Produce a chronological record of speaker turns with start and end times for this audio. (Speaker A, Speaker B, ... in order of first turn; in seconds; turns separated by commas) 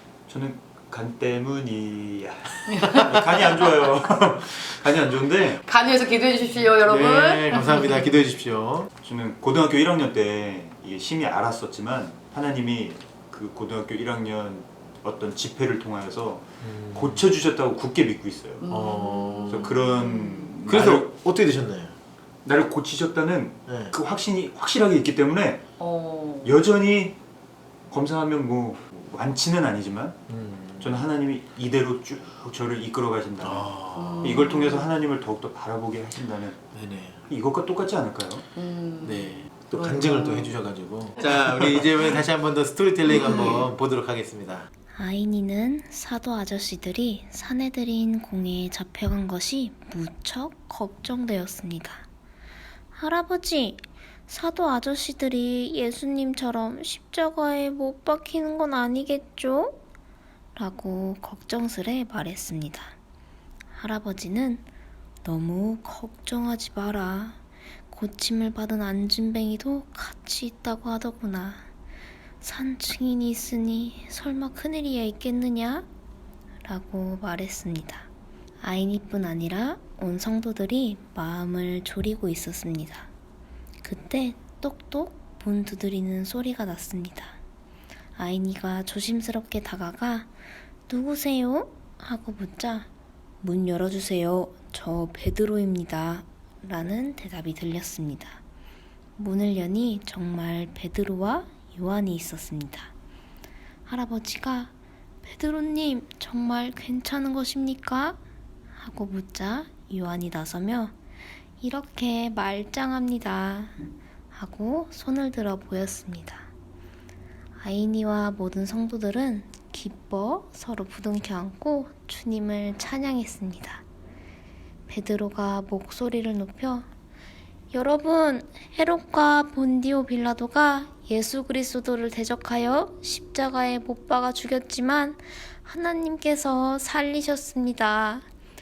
Speaker A: 0.3-5.6, Speaker B: 2.7-3.2, Speaker B: 5.7-8.1, Speaker C: 6.8-8.9, Speaker A: 9.0-18.6, Speaker C: 16.6-17.2, Speaker B: 18.6-20.6, Speaker C: 18.7-19.8, Speaker A: 19.5-21.1, Speaker C: 20.7-22.0, Speaker A: 22.4-25.7, Speaker C: 23.7-23.9, Speaker B: 25.8-26.5, Speaker A: 26.4-27.2, Speaker A: 27.9-30.2, Speaker C: 30.3-31.0, Speaker A: 30.8-36.7, Speaker C: 33.4-34.5, Speaker B: 34.0-34.9, Speaker C: 36.7-37.2, Speaker A: 37.3-38.5, Speaker B: 38.5-40.5, Speaker C: 39.0-44.7, Speaker B: 43.1-43.6, Speaker D: 45.0-52.1, Speaker D: 53.0-59.8, Speaker D: 60.6-63.0, Speaker D: 63.8-64.7, Speaker D: 65.2-67.4, Speaker D: 67.9-71.7, Speaker D: 72.4-75.9, Speaker D: 76.6-78.1, Speaker D: 78.6-83.1, Speaker D: 83.8-87.4, Speaker D: 88.2-90.3, Speaker D: 90.9-92.9, Speaker D: 93.4-98.4, Speaker D: 99.2-102.9, Speaker D: 103.9-104.7, Speaker D: 105.2-108.2, Speaker D: 108.8-111.0, Speaker D: 111.6-113.8, Speaker D: 114.3-116.5, Speaker D: 117.6-123.8, Speaker D: 124.9-126.9, Speaker D: 127.7-138.3